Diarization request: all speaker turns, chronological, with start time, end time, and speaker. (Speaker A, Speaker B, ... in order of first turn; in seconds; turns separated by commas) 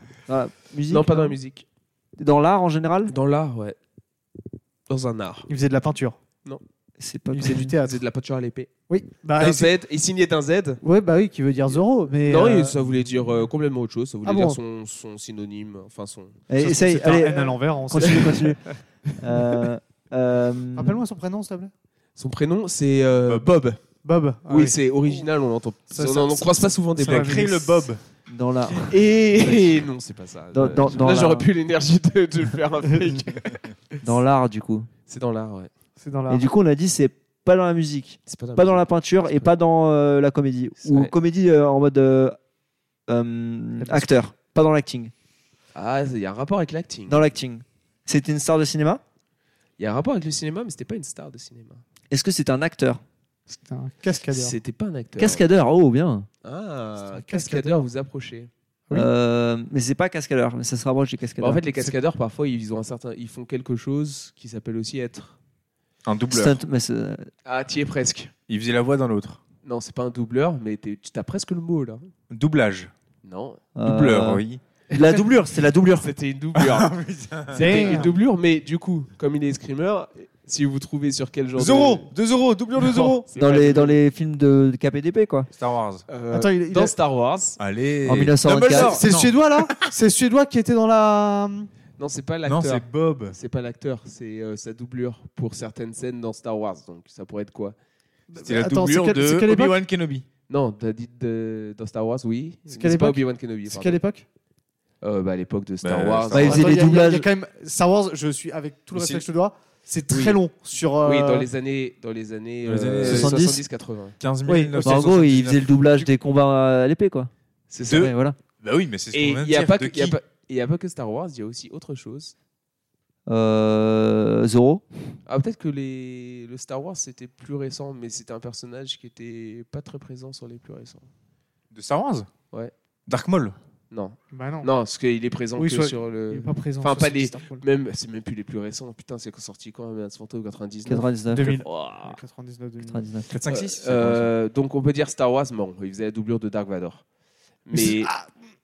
Speaker A: 0.3-1.4, Speaker B: 0.9-1.6, Speaker A: 2.2-3.1, Speaker B: 3.1-3.8, Speaker B: 4.9-5.5, Speaker C: 5.5-6.2, Speaker A: 7.0-7.7, Speaker C: 7.3-8.0, Speaker B: 7.7-8.7, Speaker C: 8.9-9.7, Speaker B: 9.3-10.8, Speaker C: 10.8-12.8, Speaker B: 12.2-16.4, Speaker C: 14.2-14.6, Speaker A: 16.5-18.6, Speaker C: 16.6-18.5, Speaker B: 18.0-18.8, Speaker A: 19.2-21.0, Speaker C: 20.7-21.7, Speaker B: 22.2-23.8, Speaker C: 24.0-25.2, Speaker B: 24.5-27.5, Speaker C: 25.9-27.9, Speaker D: 27.0-28.0, Speaker A: 28.3-29.0, Speaker B: 28.8-34.0, Speaker A: 30.5-31.5, Speaker A: 34.0-34.9, Speaker B: 35.1-35.7, Speaker C: 36.0-36.5, Speaker A: 36.3-42.4, Speaker B: 38.3-39.5, Speaker B: 40.8-41.1, Speaker A: 43.1-45.1, Speaker C: 43.8-44.1, Speaker B: 45.7-47.2, Speaker A: 47.1-49.0, Speaker B: 49.8-51.8, Speaker A: 52.1-53.0, Speaker C: 53.5-54.6, Speaker B: 54.3-55.4, Speaker A: 55.2-56.3, Speaker B: 56.4-58.5, Speaker C: 57.1-57.8, Speaker A: 58.9-61.6, Speaker B: 61.4-65.4, Speaker D: 66.0-66.6, Speaker A: 66.3-67.3, Speaker B: 67.4-68.3, Speaker D: 68.5-69.4, Speaker B: 69.6-72.1, Speaker D: 72.3-72.9, Speaker B: 73.2-73.6, Speaker A: 73.7-76.1, Speaker D: 73.8-74.6, Speaker B: 75.9-76.9, Speaker D: 76.5-78.1, Speaker B: 77.5-82.1, Speaker C: 77.5-78.1, Speaker D: 81.6-83.2, Speaker B: 82.8-84.0, Speaker A: 83.3-85.5, Speaker D: 85.5-86.0, Speaker B: 86.1-87.6, Speaker C: 86.3-86.9, Speaker D: 87.6-89.9, Speaker A: 88.0-89.0, Speaker B: 88.4-89.0, Speaker C: 88.8-91.7, Speaker B: 92.0-97.7, Speaker D: 92.5-93.3, Speaker C: 98.3-99.8, Speaker D: 98.4-100.2, Speaker B: 100.5-104.0, Speaker C: 102.7-104.2, Speaker B: 105.0-107.0, Speaker D: 105.8-106.6, Speaker A: 106.3-107.3, Speaker C: 106.3-111.5, Speaker B: 110.1-110.4, Speaker B: 111.0-114.2, Speaker D: 112.6-113.5, Speaker A: 113.0-113.6, Speaker D: 114.2-116.1, Speaker C: 114.5-115.0, Speaker A: 114.7-117.3, Speaker B: 117.7-118.1, Speaker A: 117.9-118.4, Speaker D: 117.9-120.2, Speaker B: 119.1-122.3, Speaker A: 123.3-124.8, Speaker B: 125.2-131.1, Speaker D: 131.7-132.3, Speaker D: 133.1-133.6, Speaker B: 133.9-142.2, Speaker C: 134.3-134.7, Speaker C: 135.6-137.6, Speaker A: 140.8-141.6, Speaker C: 141.3-143.0, Speaker A: 142.8-143.3, Speaker D: 143.3-144.3, Speaker B: 143.5-147.0, Speaker B: 147.6-148.1, Speaker C: 147.7-148.3